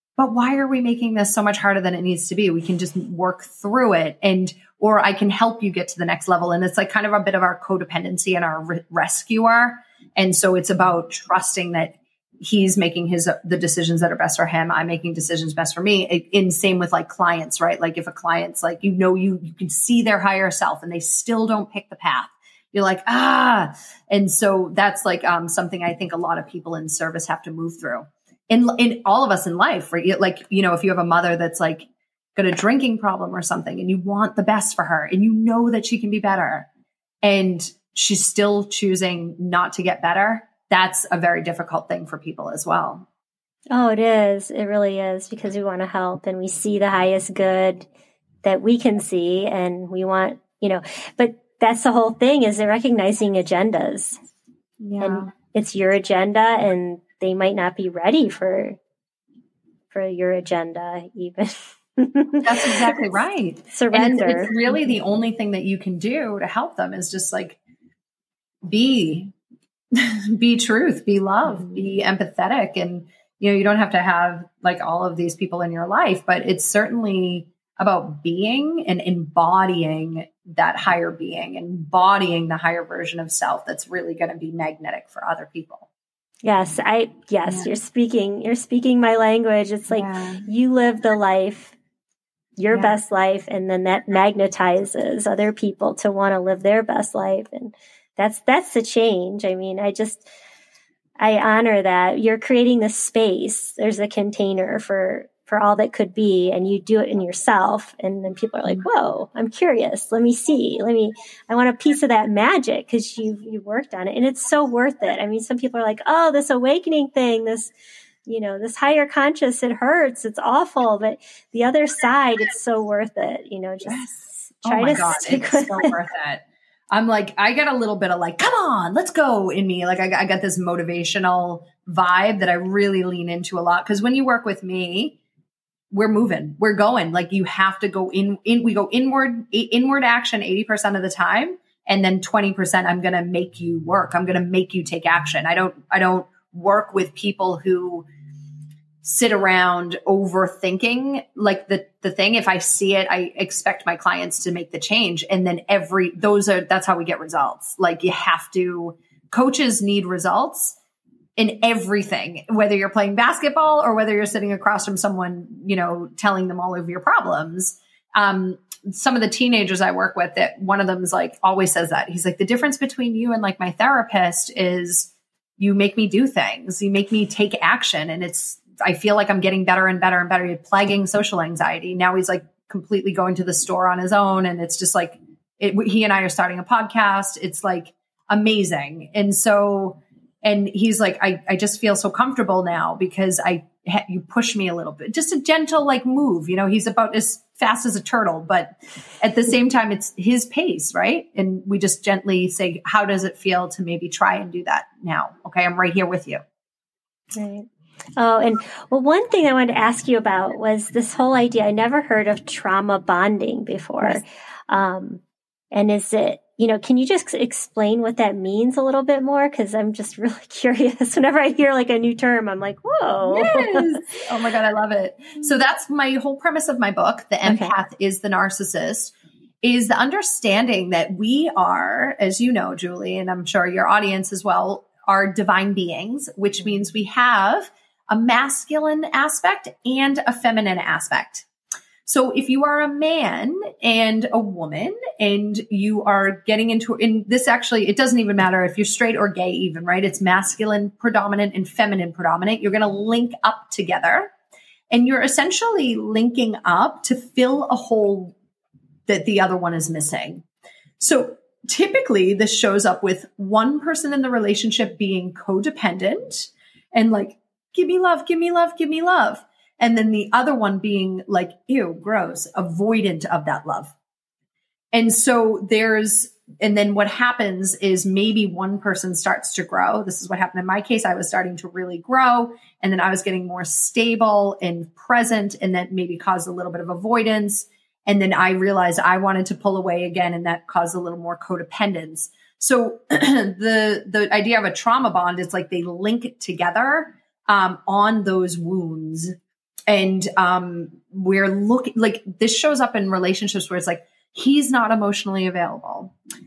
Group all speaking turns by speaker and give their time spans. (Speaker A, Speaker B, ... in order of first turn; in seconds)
Speaker A: 0.2-36.7, 37.2-43.1, 54.8-55.3, 62.4-67.6, 68.7-69.3, 69.9-85.9, 89.9-90.5, 92.7-93.0, 123.8-135.2, 135.9-148.1, 149.0-160.8, 161.4-206.4, 223.2-241.5, 242.1-254.3, 254.9-258.4, 259.1-260.4, 261.0-273.9, 274.9-299.4, 299.9-306.1
Speaker B: 43.7-47.9, 48.4-54.2, 55.0-58.8, 59.9-63.0, 63.7-64.7, 71.5-71.8, 86.4-91.8, 92.6-100.3, 101.2-117.7, 118.3-124.1, 124.7-126.0, 207.3-215.2, 215.7-224.0, 227.4-227.7